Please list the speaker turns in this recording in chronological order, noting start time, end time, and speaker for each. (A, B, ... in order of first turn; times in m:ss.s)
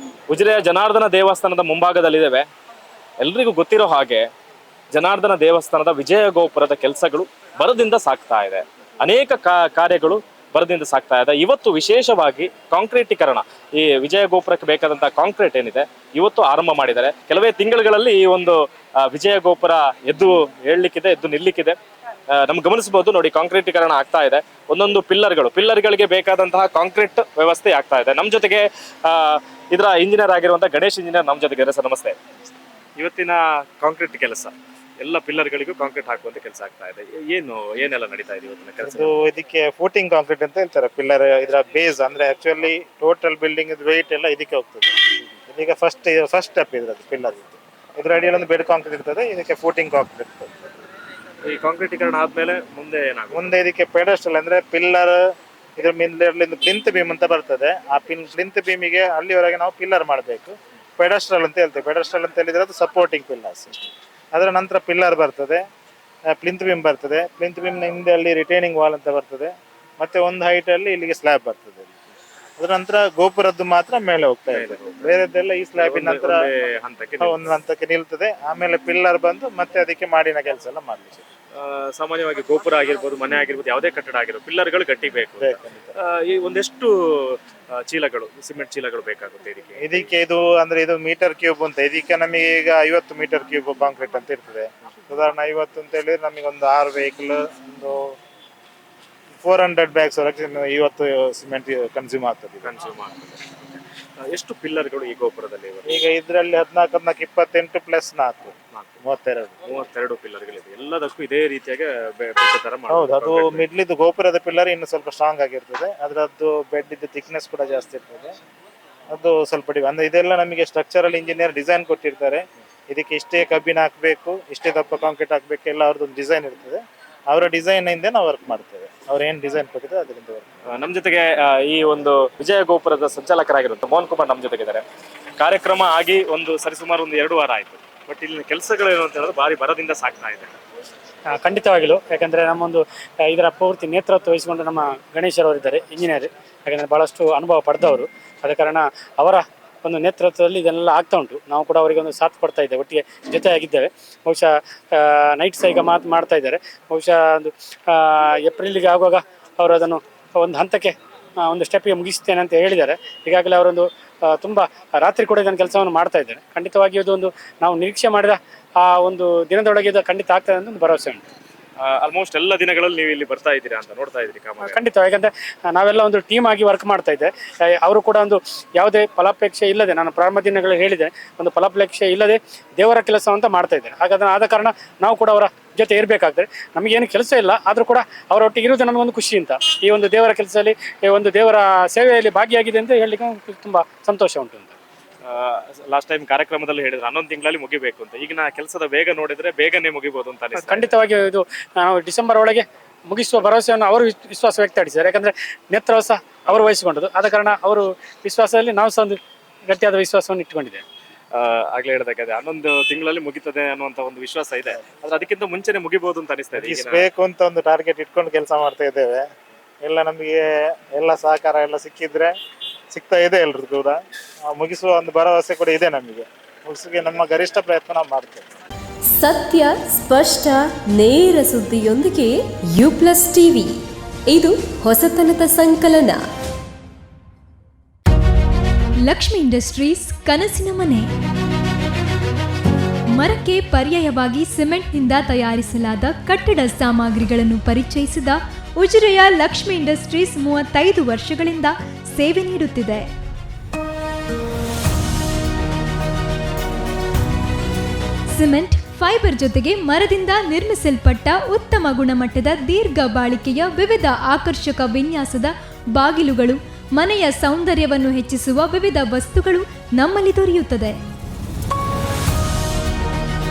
0:00.3-0:02.5 A
0:03.2-0:04.3 A
0:04.9-0:21.8 A
0:22.4-0:32.2 A
0:33.0-0:39.2 A
0:38.8-0:50.6 B
0:51.4-0:53.6 A
0:53.3-1:05.6 B
1:06.3-1:11.9 B
1:12.6-1:16.4 B
1:14.5-1:15.2 A
1:15.8-1:17.4 A
1:17.2-1:21.3 B
1:21.6-1:29.9 A
1:25.4-1:25.9 B
1:29.8-1:38.2 B
1:39.4-1:42.7 B
1:42.6-1:46.0 A
1:45.8-1:49.5 B
1:49.7-1:53.7 A
1:52.9-1:58.3 B
1:59.1-2:10.5 B
2:10.7-2:14.8 A
2:15.4-2:20.6 A
2:21.3-2:51.3 C
2:51.8-2:54.8 A
2:54.6-3:14.8 C
3:15.2-3:21.0 A
3:20.6-3:30.8 C
3:31.3-3:37.1 A
3:36.5-3:39.3 B
3:39.8-3:42.3 B
3:42.9-3:48.5 B
3:49.1-3:56.2 D
3:59.0-4:01.1 E
4:03.1-4:13.1 E
4:18.3-4:31.0 E